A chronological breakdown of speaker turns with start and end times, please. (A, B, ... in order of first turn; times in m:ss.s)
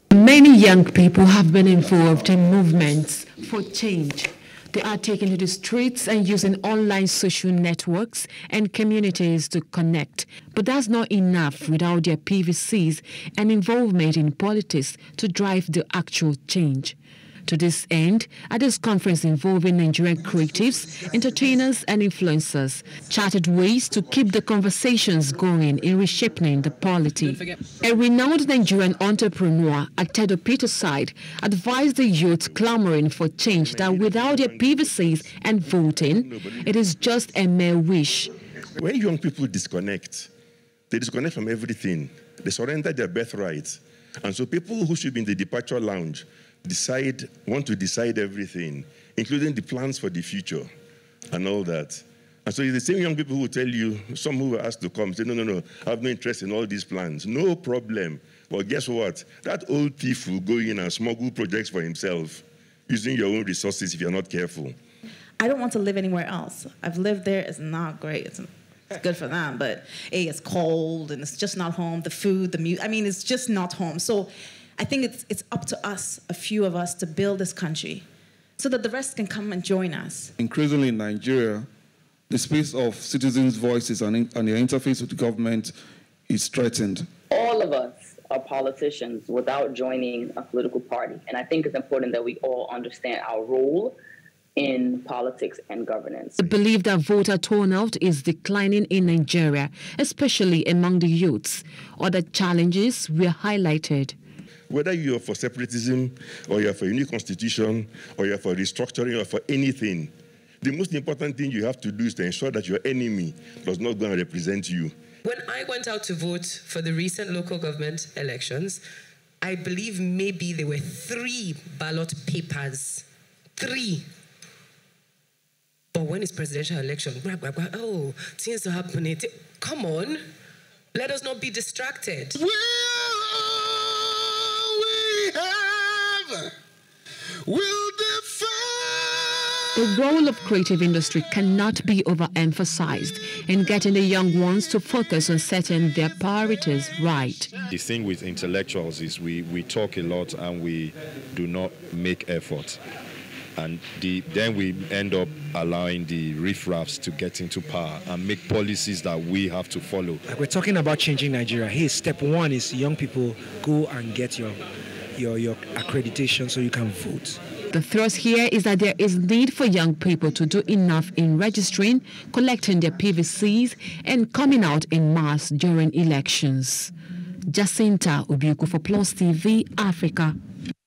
0:00.1-0:17.0 A
0:17.5-0:38.4 A
0:33.5-0:36.6 B
0:38.8-0:40.3 B
0:40.9-0:50.7 B
0:51.3-1:04.8 B
1:05.4-1:18.0 C
1:18.6-1:20.3 C
1:20.4-1:21.7 D
1:22.3-1:25.7 D
1:26.3-1:27.1 D
1:27.3-1:34.0 E
1:34.6-1:36.6 E
1:36.4-1:44.2 A
1:44.7-1:54.9 B
1:55.2-1:58.8 F
1:59.4-2:03.0 F
2:03.6-2:04.1 F
2:05.9-2:10.2 F
2:10.9-2:12.4 F
2:12.4-2:16.5 D
2:17.5-2:19.6 D
2:19.8-2:27.5 A
2:27.7-2:32.8 G
2:33.6-2:40.2 G
2:40.3-2:44.6 H
2:45.2-2:47.4 H
2:47.7-2:56.9 A
2:57.5-3:00.4 A